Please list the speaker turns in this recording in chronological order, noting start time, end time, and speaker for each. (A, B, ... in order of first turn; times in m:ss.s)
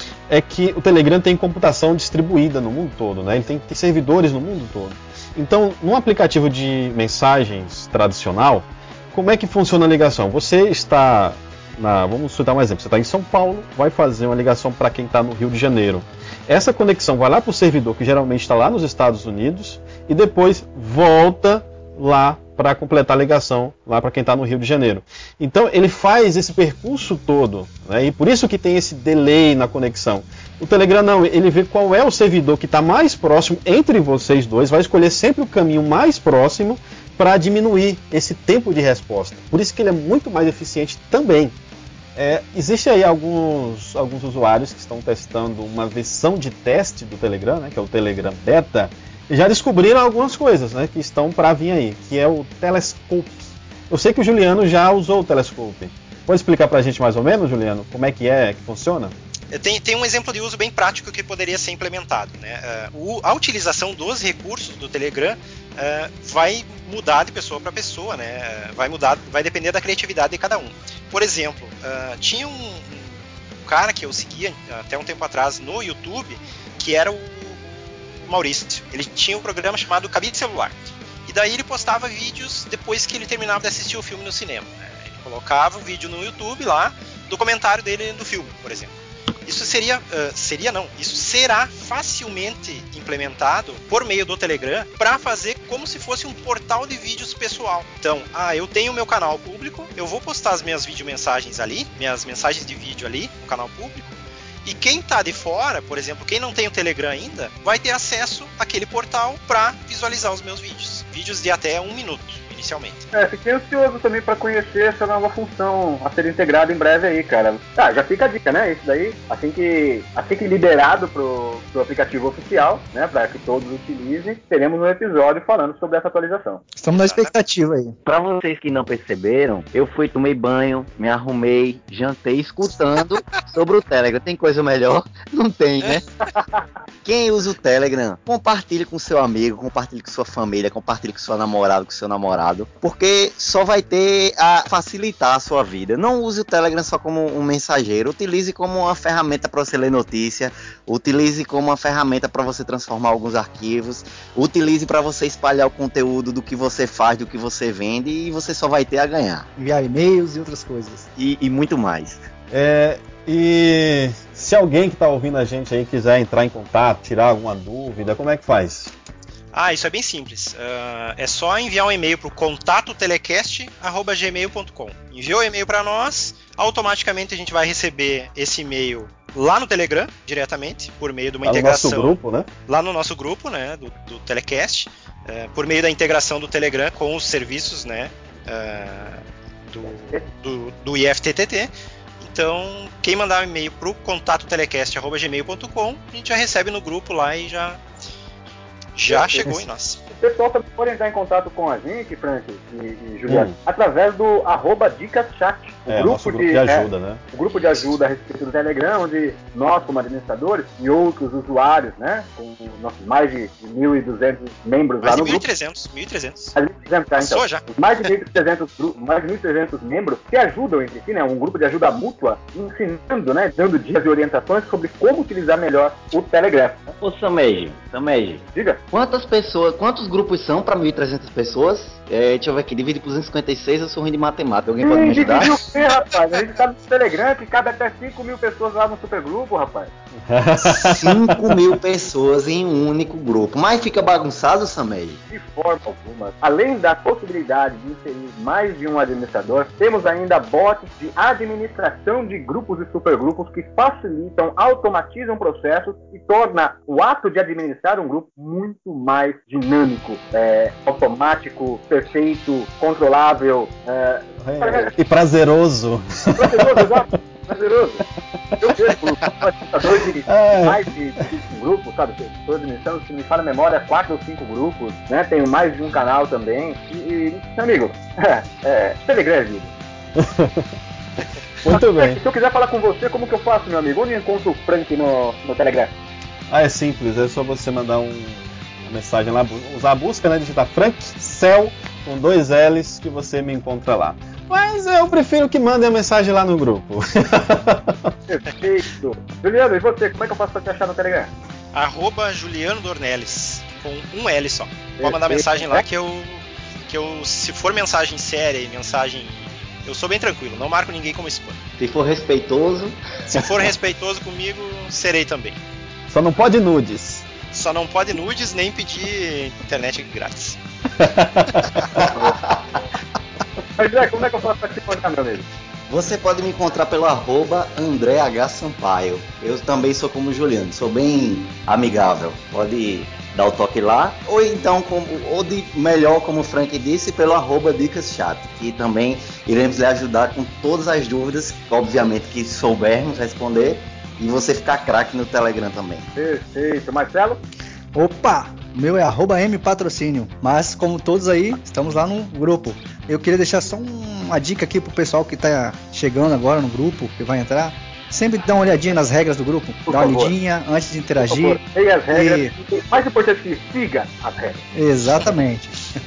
0:00.3-0:41.6 A
0:42.2-0:59.1 A
0:59.5-1:20.7 B
1:21.3-1:28.9 B
1:29.4-1:53.1 B
1:53.1-2:06.6 C
2:06.8-2:08.0 D
2:06.9-2:07.3 B
2:08.0-2:16.0 E
2:17.0-2:39.5 E
2:39.6-2:41.1 D
2:41.2-2:42.2 E
2:42.5-2:48.9 A
2:49.5-3:02.2 B
3:01.4-3:02.5 A
3:02.7-3:17.8 B
3:19.0-3:20.0 B
3:19.1-3:19.5 C
3:20.1-3:35.5 C
3:23.3-3:23.6 A
3:25.9-3:27.2 A
3:35.0-3:36.6 B
3:36.6-3:47.0 C
3:37.2-3:37.6 B
3:47.0-3:55.6 E
3:48.5-3:48.8 C
3:54.8-3:59.9 C
4:00.2-4:01.8 A
4:00.7-4:05.2 E
4:05.3-4:24.9 C
4:24.4-4:27.0 A
4:26.4-4:28.1 C
4:28.6-4:39.7 C
4:30.3-4:30.8 A
4:40.2-4:40.7 A
4:41.6-4:42.2 A
4:41.7-4:45.9 C
4:46.5-4:58.1 A
4:58.3-5:01.3 C
5:01.7-5:11.6 B
5:05.0-5:05.8 C
5:11.8-5:13.0 E
5:13.3-5:15.6 B
5:16.1-5:17.3 A
5:17.5-5:20.6 B
5:21.0-5:22.2 A
5:22.0-5:22.8 E
5:23.8-5:25.5 C
5:25.9-5:46.1 E
5:46.2-5:47.4 C
5:48.0-6:02.5 D
5:59.9-6:00.4 C
6:01.2-6:04.6 C
6:04.8-6:05.9 D